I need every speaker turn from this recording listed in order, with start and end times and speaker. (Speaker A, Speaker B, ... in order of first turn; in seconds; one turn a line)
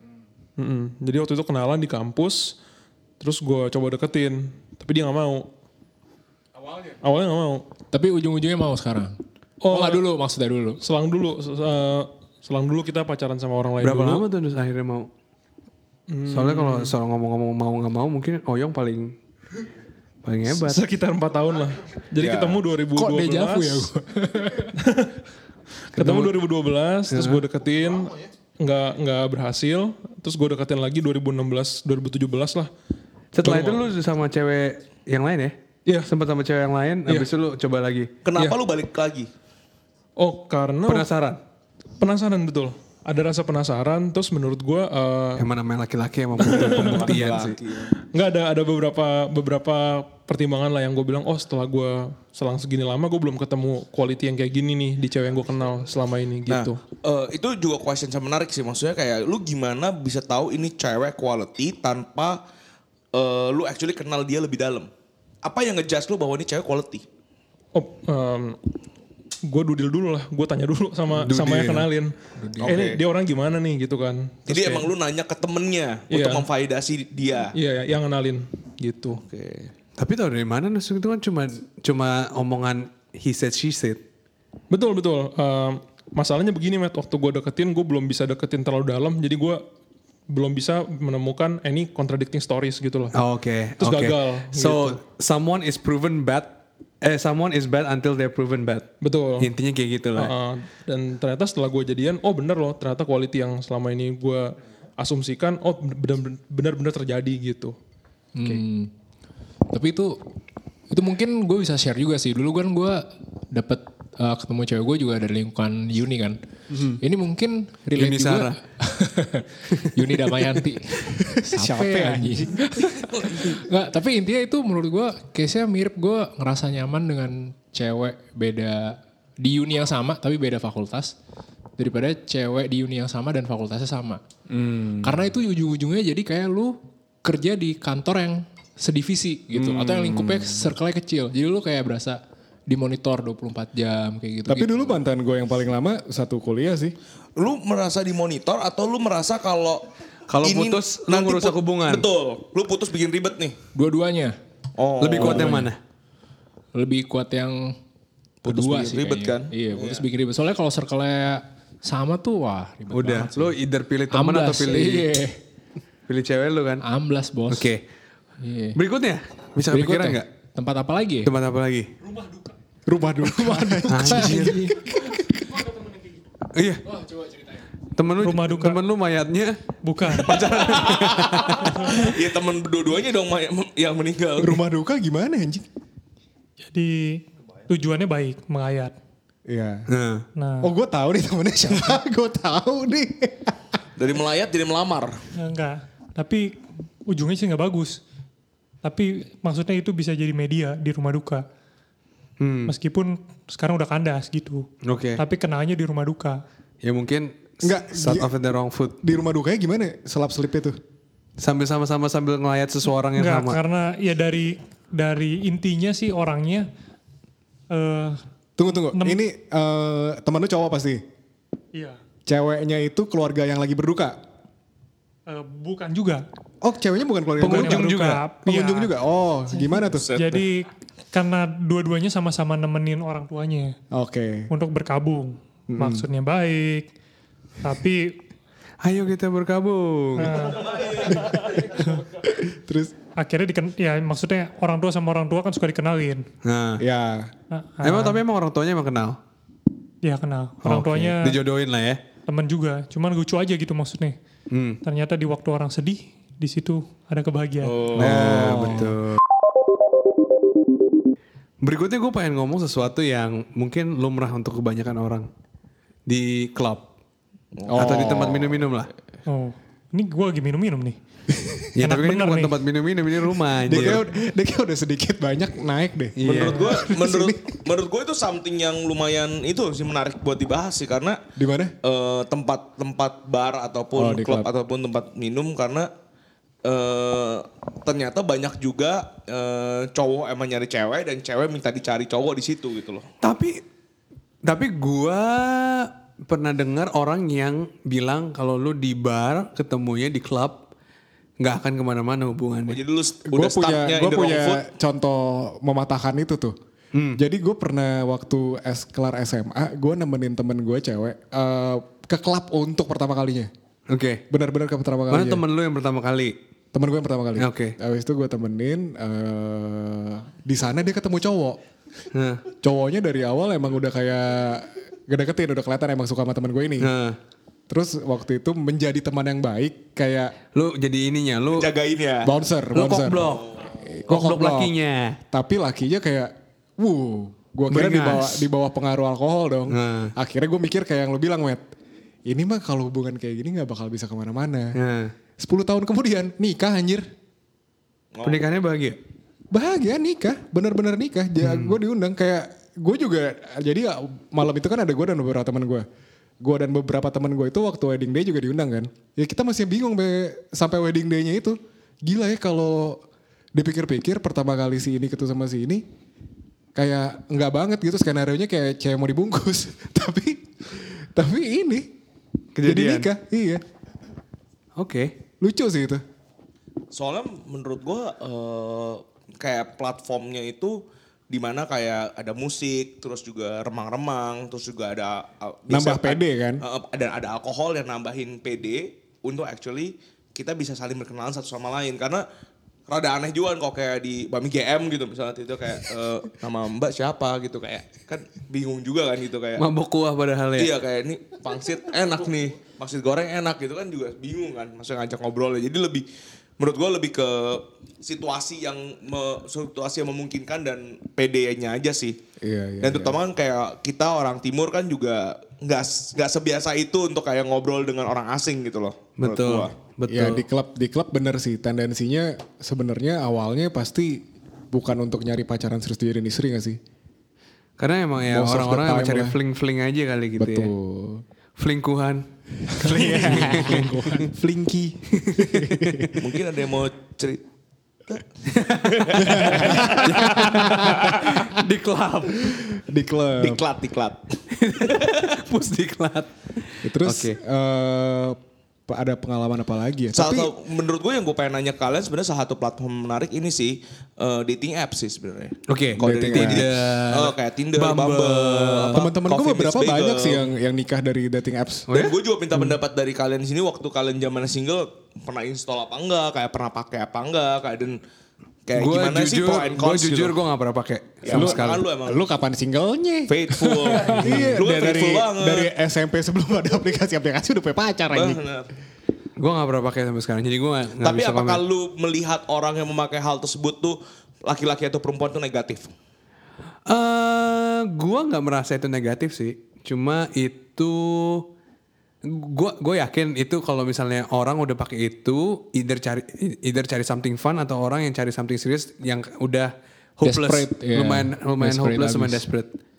Speaker A: 0.6-2.6
Speaker A: 3.2-5.5
Speaker A: 6.8-7.7
Speaker B: 7.9-10.8
Speaker A: 9.6-10.1
Speaker A: 10.8-14.3
Speaker C: 13.8-15.1
Speaker A: 16.1-16.9
Speaker C: 16.3-19.2
Speaker C: 20.2-20.8
Speaker A: 20.5-23.9
Speaker D: 22.2-22.6
Speaker B: 22.9-24.7
Speaker A: 24.8-25.1
Speaker A: 25.9-32.7
Speaker C: 26.0-26.4
Speaker C: 27.1-27.5
Speaker C: 33.4-38.1
Speaker A: 33.4-33.8
Speaker D: 38.2-39.3
Speaker A: 38.4-38.6
Speaker A: 40.2-41.1
Speaker C: 40.9-41.4
Speaker A: 42.0-45.5
Speaker C: 45.4-47.6
Speaker A: 46.4-47.1
Speaker D: 46.5-47.9
Speaker A: 48.0-56.8
Speaker D: 56.5-62.4
Speaker D: 63.1-64.9
Speaker D: 65.4-67.0
Speaker A: 67.8-68.6
Speaker A: 69.5-74.9
Speaker C: 71.1-71.9
Speaker B: 72.4-72.7
Speaker D: 72.6-73.0
Speaker D: 74.5-77.5
Speaker A: 76.1-76.5
Speaker A: 77.5-79.2
Speaker D: 79.1-79.7
Speaker C: 80.0-84.0
Speaker A: 84.7-89.6
Speaker A: 90.3-93.2
Speaker C: 93.1-100.3
Speaker A: 93.8-95.0
Speaker A: 99.0-99.5
Speaker A: 100.2-107.8
Speaker B: 108.4-108.9
Speaker B: 109.7-110.2
Speaker B: 110.9-116.4
Speaker B: 117.0-131.2
Speaker C: 118.0-118.6
Speaker E: 121.2-122.6
Speaker B: 131.8-134.2
Speaker E: 134.5-135.3
Speaker B: 135.0-145.0
Speaker E: 139.6-140.7
Speaker E: 144.5-147.0
Speaker D: 147.4-149.9
Speaker C: 150.3-152.1
Speaker D: 150.4-153.6
Speaker B: 153.8-154.4
Speaker D: 154.8-155.7
Speaker C: 155.0-155.8
Speaker B: 155.2-155.7
Speaker B: 156.8-157.8
Speaker D: 158.4-160.0
Speaker B: 158.4-163.6
Speaker C: 162.9-165.2
Speaker B: 164.1-165.4
Speaker C: 166.1-166.8
Speaker B: 166.8-167.7
Speaker C: 167.5-167.8
Speaker B: 168.4-168.8
Speaker C: 168.8-170.3
Speaker B: 169.7-171.3
Speaker C: 171.2-171.9
Speaker E: 172.9-175.3
Speaker B: 173.6-174.8
Speaker C: 173.9-174.6
Speaker C: 176.5-176.9
Speaker B: 177.1-177.6
Speaker C: 178.0-182.1
Speaker F: 178.2-178.8
Speaker F: 179.8-180.5
Speaker D: 180.6-184.6
Speaker E: 184.4-185.7
Speaker F: 186.7-188.9
Speaker E: 189.5-189.9
Speaker C: 189.9-190.2
Speaker F: 190.4-190.7
Speaker E: 190.6-193.6
Speaker D: 194.0-195.2
Speaker F: 195.4-198.0
Speaker F: 198.8-201.4
Speaker C: 202.4-202.8
Speaker F: 202.7-206.4
Speaker C: 204.8-205.2
Speaker C: 206.8-209.0
Speaker E: 207.6-208.3
Speaker E: 209.0-210.8
Speaker C: 211.4-213.6
Speaker F: 213.2-216.7
Speaker F: 217.7-218.2
Speaker E: 218.6-221.0
Speaker F: 218.9-219.2
Speaker F: 221.7-222.0
Speaker E: 222.3-224.2
Speaker F: 225.3-226.2
Speaker E: 226.6-227.9
Speaker C: 227.4-228.2
Speaker F: 227.4-228.9
Speaker E: 228.4-230.2
Speaker F: 229.6-233.8
Speaker D: 229.9-230.4
Speaker E: 233.9-234.5
Speaker F: 234.5-236.9
Speaker E: 235.7-236.0
Speaker F: 237.6-238.2
Speaker C: 238.8-240.5
Speaker F: 240.2-240.9
Speaker D: 240.6-241.2
Speaker E: 242.1-242.9
Speaker F: 243.2-246.3
Speaker C: 246.4-246.8
Speaker E: 246.8-247.3
Speaker F: 247.5-248.2
Speaker C: 247.8-249.2
Speaker F: 250.0-251.4
Speaker C: 250.6-252.0
Speaker F: 252.3-254.2
Speaker C: 254.5-254.8
Speaker F: 254.8-257.9
Speaker D: 257.6-258.6
Speaker C: 257.9-259.2
Speaker E: 258.0-259.0
Speaker C: 261.6-265.3
Speaker C: 266.1-266.9
Speaker D: 267.6-268.3
Speaker E: 267.7-268.5
Speaker C: 267.7-268.9
Speaker F: 269.3-271.0
Speaker C: 271.8-274.1
Speaker F: 271.8-272.6
Speaker E: 273.6-277.6
Speaker C: 276.2-276.9
Speaker D: 276.2-281.2
Speaker E: 281.4-281.8
Speaker D: 281.8-285.9
Speaker E: 284.0-284.5
Speaker D: 286.6-293.1
Speaker C: 293.2-293.6
Speaker C: 294.4-300.6
Speaker C: 301.4-302.8
Speaker D: 302.7-304.6
Speaker E: 303.3-306.6
Speaker C: 306.9-307.2
Speaker E: 307.2-313.5
Speaker C: 313.9-314.2
Speaker E: 314.3-315.4
Speaker C: 315.1-316.4
Speaker E: 316.7-321.6
Speaker C: 317.4-317.8
Speaker C: 322.1-322.4
Speaker E: 322.6-326.9
Speaker C: 326.8-327.2
Speaker E: 327.7-330.4
Speaker C: 330.5-331.7
Speaker D: 331.5-332.3
Speaker E: 332.2-334.7
Speaker C: 332.7-335.2
Speaker E: 335.3-341.6
Speaker C: 337.7-338.5
Speaker C: 339.7-340.1
Speaker E: 342.3-344.8
Speaker C: 344.8-345.1
Speaker E: 345.4-347.1
Speaker D: 348.1-348.4
Speaker C: 348.2-349.0
Speaker E: 349.5-355.9
Speaker C: 351.4-351.7
Speaker E: 356.4-363.0
Speaker E: 363.6-365.9
Speaker E: 366.8-371.9
Speaker C: 372.6-373.1
Speaker E: 372.6-373.6
Speaker C: 374.8-375.1
Speaker E: 375.4-376.0
Speaker D: 376.9-380.8
Speaker D: 381.3-392.2
Speaker E: 385.7-386.6
Speaker D: 392.9-399.6
Speaker C: 399.6-400.7
Speaker D: 400.6-406.1
Speaker D: 406.6-412.2
Speaker E: 412.4-413.2
Speaker D: 412.8-419.7
Speaker C: 419.2-420.4
Speaker E: 420.1-426.8
Speaker C: 427.8-430.7
Speaker E: 428.2-429.4
Speaker E: 430.4-431.2
Speaker C: 431.6-433.9
Speaker E: 432.8-436.2
Speaker C: 435.2-436.2
Speaker D: 436.2-437.4
Speaker C: 438.5-442.6
Speaker D: 438.7-440.3
Speaker E: 439.2-441.4
Speaker E: 442.4-443.6
Speaker D: 443.4-444.2
Speaker C: 444.5-447.4
Speaker D: 444.8-445.3
Speaker E: 446.8-450.5
Speaker D: 450.1-460.4
Speaker C: 455.7-459.0
Speaker E: 456.0-456.6
Speaker E: 458.9-461.9
Speaker C: 461.9-462.1
Speaker D: 461.9-468.0
Speaker D: 468.7-470.4
Speaker C: 468.8-471.9
Speaker D: 471.2-472.2
Speaker E: 471.3-478.4
Speaker D: 473.3-475.7
Speaker B: 474.0-474.2
Speaker C: 474.1-474.6
Speaker D: 478.1-478.7
Speaker C: 479.4-481.6
Speaker D: 481.0-485.9
Speaker C: 486.9-491.5
Speaker C: 492.2-502.7
Speaker B: 500.2-502.4